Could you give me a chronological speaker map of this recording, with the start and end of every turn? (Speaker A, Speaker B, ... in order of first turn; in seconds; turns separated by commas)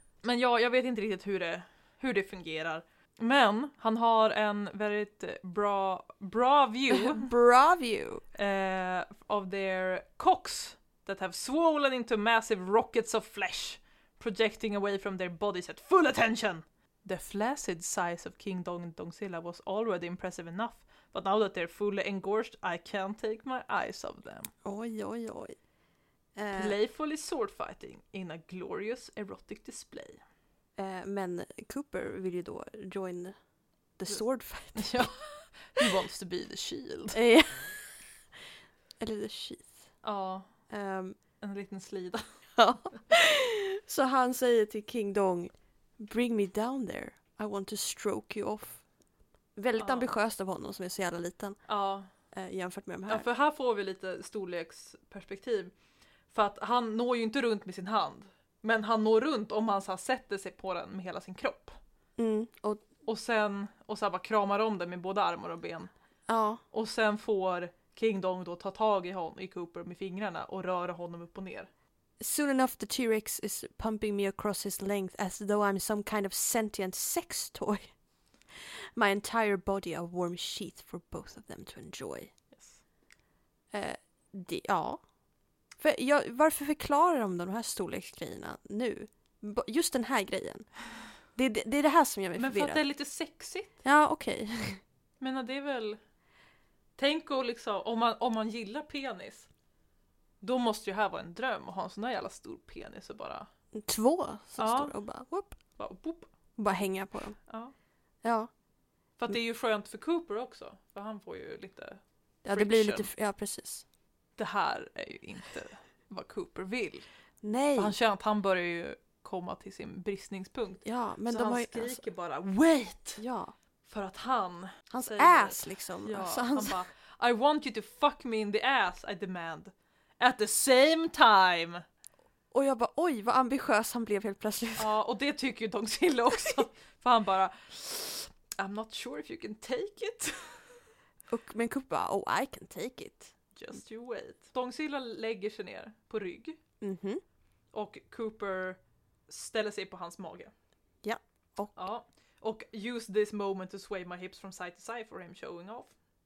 Speaker A: 0.2-7.3, Speaker B: 6.9-8.2, Speaker A: 8.3-24.5, Speaker B: 24.6-25.6, Speaker B: 26.4-26.8, Speaker A: 26.5-30.2, Speaker B: 30.8-33.4, Speaker B: 34.0-35.9, Speaker A: 34.1-37.2, Speaker B: 37.1-38.1, Speaker B: 39.0-39.9, Speaker A: 40.0-40.7, Speaker B: 40.7-41.2, Speaker A: 41.4-42.9, Speaker B: 42.5-48.9, Speaker B: 49.5-53.3, Speaker A: 49.8-50.1, Speaker A: 51.7-52.1, Speaker A: 53.1-55.7, Speaker A: 56.3-61.8, Speaker B: 62.2-62.8, Speaker A: 63.0-65.9, Speaker B: 66.3-66.6, Speaker A: 66.7-71.7, Speaker B: 72.2-82.3, Speaker A: 82.5-82.8, Speaker B: 83.7-85.0, Speaker B: 85.8-92.8, Speaker A: 92.3-93.7, Speaker B: 93.8-94.8, Speaker A: 95.2-96.0, Speaker A: 97.0-99.5, Speaker A: 100.4-103.5, Speaker B: 103.7-105.8, Speaker A: 104.6-105.0, Speaker A: 105.5-106.3, Speaker B: 106.5-107.5, Speaker A: 107.5-107.7, Speaker B: 108.2-108.5, Speaker A: 109.2-113.1, Speaker B: 112.4-113.8, Speaker A: 114.3-117.1, Speaker B: 117.4-117.9, Speaker A: 117.7-123.2, Speaker B: 120.8-122.0, Speaker B: 123.2-123.5, Speaker A: 123.8-131.8, Speaker B: 124.9-126.8, Speaker B: 132.5-134.9, Speaker A: 134.8-140.8, Speaker B: 141.3-143.4, Speaker A: 143.5-146.6, Speaker B: 146.8-147.2, Speaker A: 147.7-150.5, Speaker B: 151.0-151.9, Speaker A: 151.7-156.0